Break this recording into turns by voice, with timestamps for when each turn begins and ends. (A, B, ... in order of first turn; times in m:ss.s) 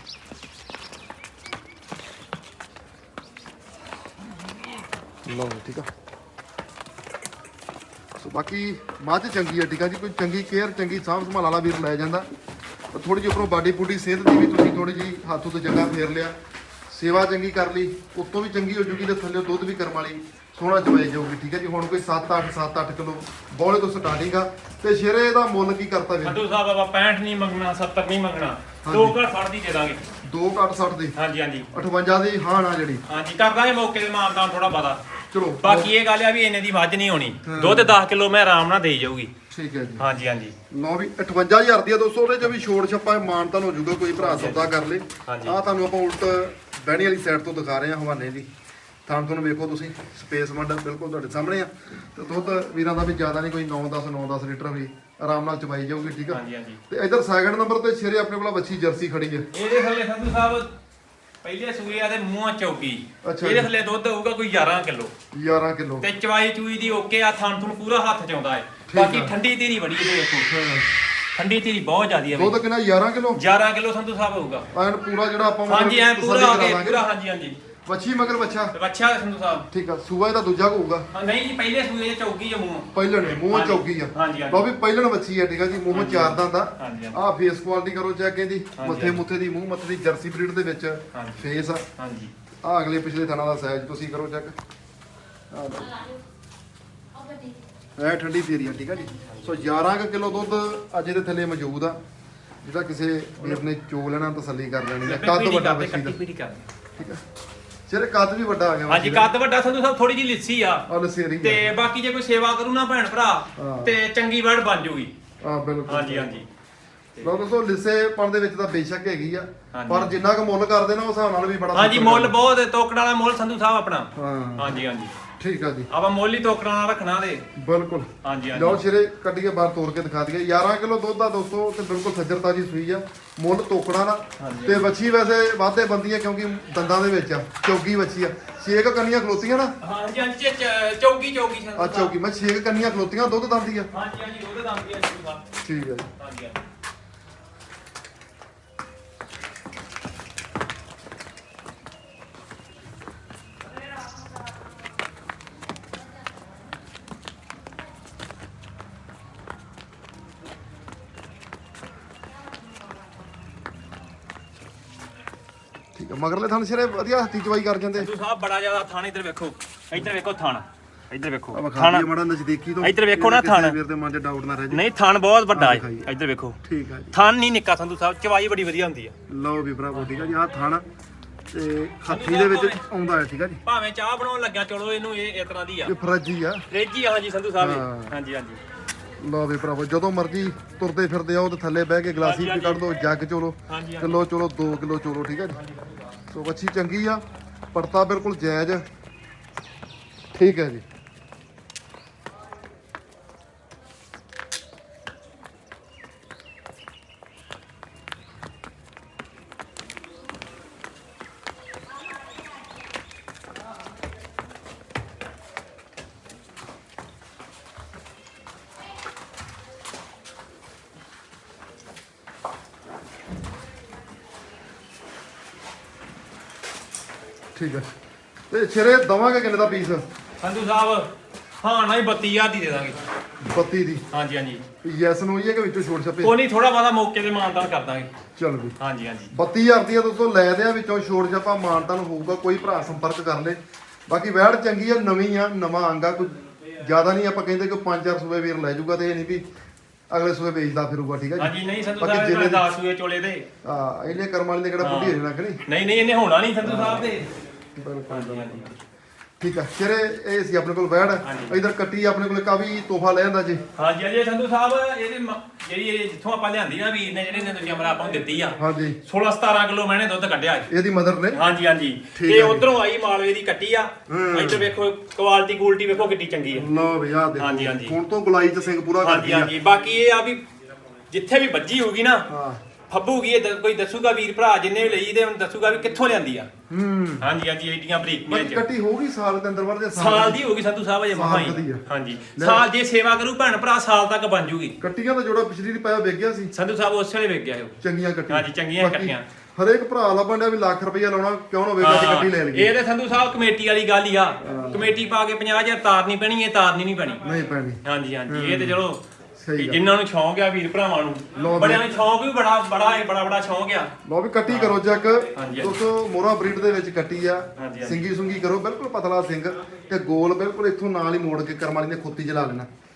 0:05.2-0:05.9 A
0:08.2-0:12.2 A
0:12.9-0:16.3 A
0:16.9-0:26.4 A
0:26.2-0:30.0 B
0:28.8-0:29.2 A
0:30.2-0:31.2 A
0:31.1-0:31.7 B
0:31.7-0:33.0 A
0:33.1-0:35.0 B
0:35.3-0:35.9 A
0:35.6-0:39.3 B
0:37.4-0:37.9 A
0:39.5-0:40.0 A
0:40.0-0:40.6 B
0:40.7-0:48.5 A
0:44.2-0:44.7 B
0:45.2-0:45.6 B
0:49.1-0:59.5 A
0:56.3-0:56.8 B
0:59.5-1:00.7 B
1:01.4-1:05.1 B
1:03.2-1:03.7 A
1:05.3-1:06.1 A
1:06.0-1:10.5 B
1:08.9-1:09.3 A
1:10.5-1:10.9 A
1:11.3-1:12.6 B
1:12.3-1:13.4 A
1:13.3-1:14.7 B
1:14.7-1:17.1 A
1:15.7-1:17.6 B
1:17.8-1:18.7 A
1:18.7-1:19.7 B
1:19.7-1:21.1 A
1:21.1-1:24.7 B
1:22.9-1:31.8 A
1:25.9-1:27.2 B
1:28.8-1:29.2 B
1:31.1-1:32.3 B
1:32.6-1:34.5 A
1:35.5-1:36.0 A
1:38.0-1:42.0 A
1:39.2-1:39.6 B
1:42.6-1:46.2 A
1:45.0-1:46.7 B
1:47.9-1:49.3 A
1:48.9-1:50.8 B
1:50.9-1:51.7 A
1:51.4-1:55.1 B
1:53.6-1:54.0 A
1:55.4-1:56.3 A
1:55.9-1:56.5 B
1:57.2-2:02.4 A
1:59.7-2:00.1 B
2:01.7-2:05.1 B
2:04.2-2:04.7 A
2:05.4-2:05.9 A
2:05.9-2:07.4 B
2:07.6-2:19.7 A
2:08.2-2:08.8 B
2:14.4-2:14.9 B
2:19.8-2:22.1 B
2:21.8-2:23.9 A
2:23.9-2:25.5 B
2:25.6-2:26.1 A
2:26.2-2:26.6 B
2:45.9-2:48.1 A
2:47.9-2:52.1 B
2:51.5-2:54.8 A
2:52.8-2:53.8 B
2:54.7-2:56.6 B
2:55.5-2:56.1 A
2:56.6-2:57.1 A
2:57.1-2:59.1 B
2:59.3-3:00.8 A
3:00.0-3:00.3 B
3:01.5-3:03.6 A
3:02.1-3:02.8 B
3:03.6-3:05.9 B
3:05.8-3:06.6 A
3:06.7-3:08.6 B
3:07.6-3:08.2 A
3:09.2-3:15.6 A
3:12.2-3:12.8 B
3:13.7-3:14.1 B
3:15.5-3:16.1 B
3:16.3-3:17.2 A
3:17.7-3:18.8 A
3:20.3-3:20.8 A
3:47.5-3:47.8 A
3:48.5-3:50.0 A
3:50.4-3:51.1 B
3:51.6-3:53.0 B
3:53.4-3:54.0 A
3:54.1-3:54.6 B
3:54.8-3:56.3 A
3:56.2-3:58.1 B
3:58.4-3:58.8 A
3:58.8-3:59.3 B
3:59.3-4:09.4 A
4:10.1-4:12.6 A
4:11.4-4:13.4 B
4:13.6-4:15.6 A
4:14.8-4:17.3 B
4:16.6-4:17.1 A
4:17.8-4:18.7 A
4:18.1-4:18.7 B
4:19.4-4:23.6 A
4:21.2-4:21.6 B
4:23.8-4:30.7 B
4:28.6-4:29.0 A
4:30.7-4:31.4 A
4:31.3-4:36.7 B
4:32.1-4:32.7 A
4:34.1-4:34.7 A
4:36.5-4:39.5 A
4:37.4-4:38.0 B
4:39.0-4:40.4 B
4:41.1-4:42.3 B
4:42.3-4:42.6 A
4:42.9-4:46.5 B
4:46.7-4:47.3 A
4:47.2-4:48.6 B
4:48.3-4:50.5 A
4:49.9-4:54.8 B
4:51.1-4:51.8 A
4:52.4-4:52.6 A
4:54.8-4:56.5 A
4:56.5-4:57.8 B
4:57.8-5:02.7 A
4:58.3-4:59.2 B
5:01.8-5:07.3 B
5:04.4-5:04.9 A
5:07.2-5:08.8 A
5:07.8-5:09.0 B
5:09.4-5:09.8 A
5:09.5-5:13.9 B
5:11.3-5:11.8 A
5:14.0-5:22.7 A
5:14.5-5:14.8 B
5:15.3-5:15.8 B
5:17.6-5:18.0 B